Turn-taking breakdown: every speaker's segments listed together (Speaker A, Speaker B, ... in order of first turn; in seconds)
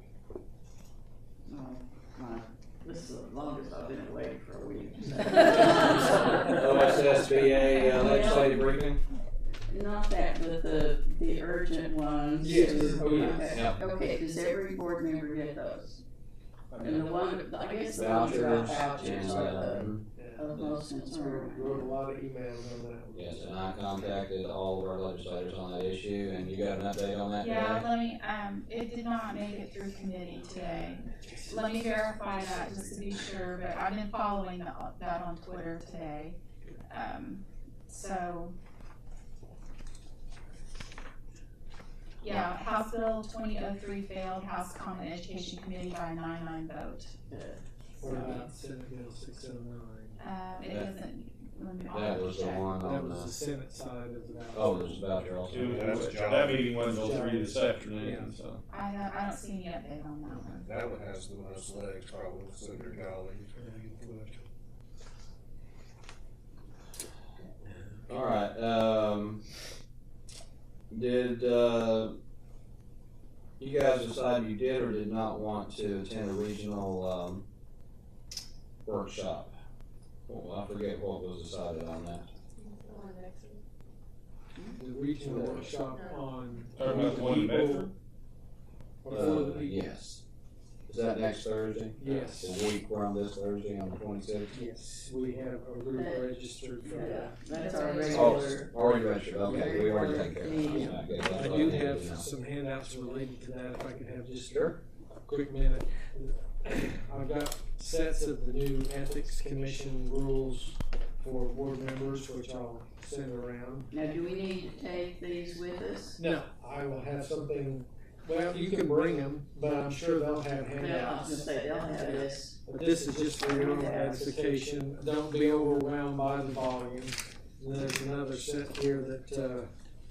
Speaker A: 1.4-8.8, 9.7-16.0, 16.8-22.0, 47.3-47.6, 95.9-98.8, 99.4-101.1, 113.9-116.2, 120.7-122.6, 123.4-124.3
Speaker B: 5.8-9.0, 13.4-13.8, 17.9-20.0, 23.1-27.9, 51.9-53.3, 54.5-55.7, 68.1-69.4, 70.9-72.2, 73.6-77.4, 78.8-79.5, 80.3-82.3, 85.2-85.7, 89.1-90.2, 90.9-94.5, 98.1-102.2
Speaker C: 12.4-13.5, 18.9-23.4, 31.1-32.3, 48.0-50.2, 52.8-55.2, 56.9-58.3, 63.5-64.4, 67.6-68.0, 84.7-87.9, 89.0-89.8, 92.0-92.6, 94.5-97.4, 99.9-113.9, 116.2-121.5, 122.6-129.7
Speaker D: 16.7-17.1, 55.5-58.6, 86.8-87.9
Speaker E: 27.4-38.6, 42.2-47.1, 48.0-48.5, 50.2-52.7, 58.7-60.7, 97.5-98.3
Speaker F: 55.5-56.8, 60.4-63.5